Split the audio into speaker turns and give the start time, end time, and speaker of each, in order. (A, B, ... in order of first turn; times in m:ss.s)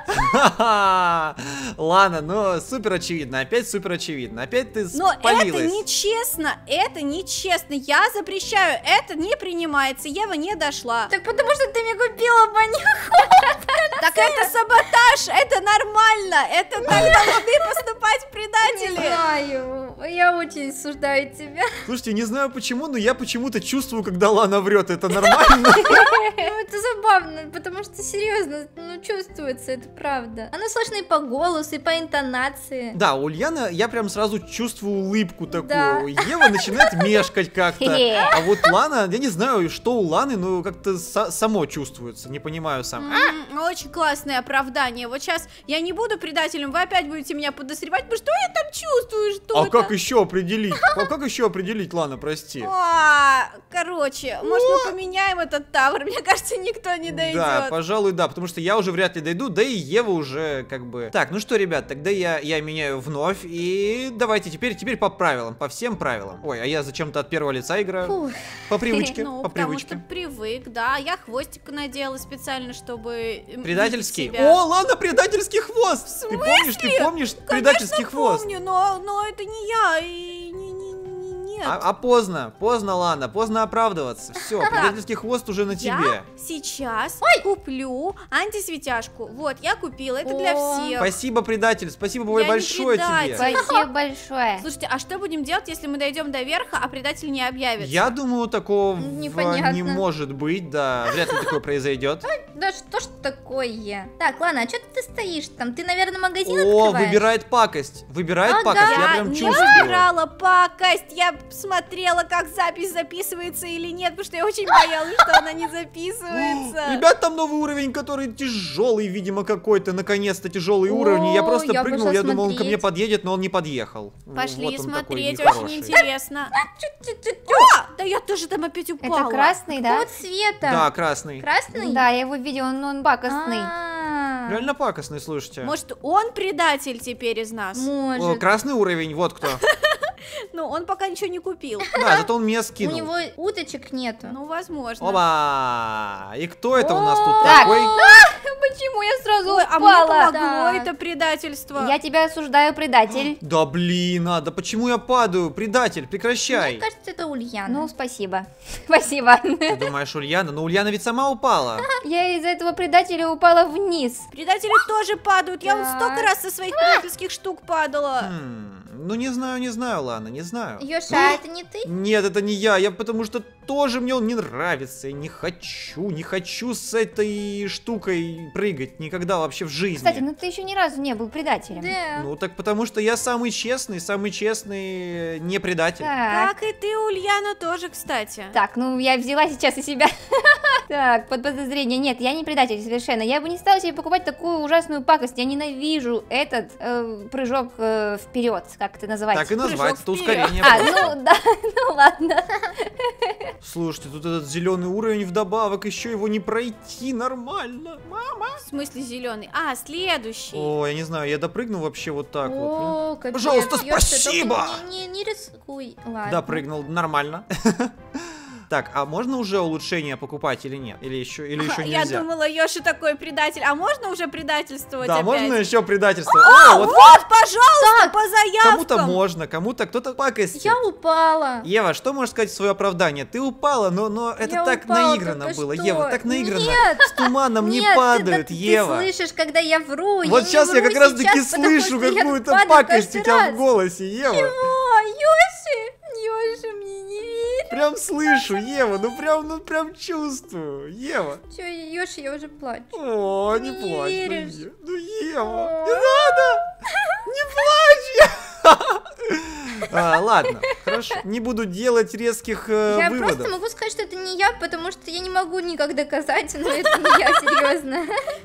0:00.1-0:05.8 A
0:04.9-0:11.1 B
0:11.1-0:14.5 C
0:14.0-0:19.2 B
0:16.9-0:17.2 A
0:16.9-0:17.3 C
0:18.6-0:21.7 C
0:21.8-0:26.1 A
0:25.7-0:33.0 C
0:25.9-0:26.5 D
0:32.9-0:43.3 A
0:35.5-0:37.1 C
0:37.8-0:38.4 D
0:43.0-0:49.9 B
0:49.5-0:52.7 A
0:52.6-0:57.7 B
0:54.5-0:54.9 A
0:57.1-1:10.0 A
1:08.0-1:08.4 C
1:09.0-1:14.6 B
1:13.6-1:18.4 A
1:16.1-1:21.8 B
1:21.6-1:26.2 A
1:24.6-1:24.9 C
1:25.7-1:31.1 B
1:30.2-1:31.0 C
1:31.0-1:33.4 A
1:32.3-1:33.7 B
1:33.4-1:34.6 D
1:33.4-1:33.8 C
1:34.6-1:38.1 B
1:37.8-1:42.2 A
1:39.0-1:40.0 C
1:42.2-1:47.2 C
1:46.4-1:50.1 A
1:48.4-1:49.8 C
1:48.8-1:57.0 B
1:56.3-2:06.0 A
2:00.8-2:02.8 C
2:04.3-2:06.5 B
2:05.9-2:07.7 C
2:07.5-2:09.6 B
2:09.0-2:10.1 D
2:09.7-2:12.0 C
2:10.6-2:11.4 A
2:11.7-2:13.7 D
2:13.3-2:14.6 C
2:14.5-2:15.7 A
2:15.6-2:17.9 B
2:17.7-2:18.4 C
2:18.2-2:19.6 A
2:19.4-2:21.9 B
2:21.9-2:22.2 C
2:21.9-2:23.1 A
2:22.8-2:24.4 C
2:24.2-2:25.2 B
2:25.0-2:27.9 A
2:26.7-2:28.2 C
2:27.4-2:30.3 D
2:29.4-2:31.9 B
2:30.3-2:30.9 C
2:31.8-2:33.4 D
2:33.3-2:36.8 A
2:36.5-2:37.9 C
2:37.6-2:39.9 D
2:39.7-2:41.8 A
2:42.0-2:44.2 D
2:44.3-2:48.3 B
2:45.6-2:47.0 C
2:48.2-3:00.2 A
2:50.8-2:51.9 C
3:00.0-3:02.0 D
3:01.7-3:02.3 C
3:02.2-3:06.1 A
3:06.0-3:06.5 D
3:06.3-3:08.6 B
3:08.5-3:19.6 D
3:19.3-3:21.2 A
3:19.6-3:21.0 B
3:20.6-3:23.5 D
3:23.6-3:28.6 A
3:28.6-3:30.7 B
3:30.5-3:34.8 A
3:32.4-3:36.6 C
3:36.2-3:42.2 A
3:41.6-3:45.6 B
3:45.0-3:47.2 A
3:46.3-3:49.2 B
3:47.8-3:48.1 C
3:48.6-3:50.8 A
3:50.5-3:51.7 C
3:51.6-3:59.1 A
3:54.4-4:03.6 C
4:00.2-4:04.5 A
4:04.3-4:07.7 C
4:07.7-4:11.4 A
4:08.3-4:08.6 C
4:11.5-4:12.9 C
4:12.9-4:16.6 A
4:13.5-4:14.6 C
4:15.5-4:17.1 C
4:17.2-4:23.5 A
4:22.9-4:28.1 C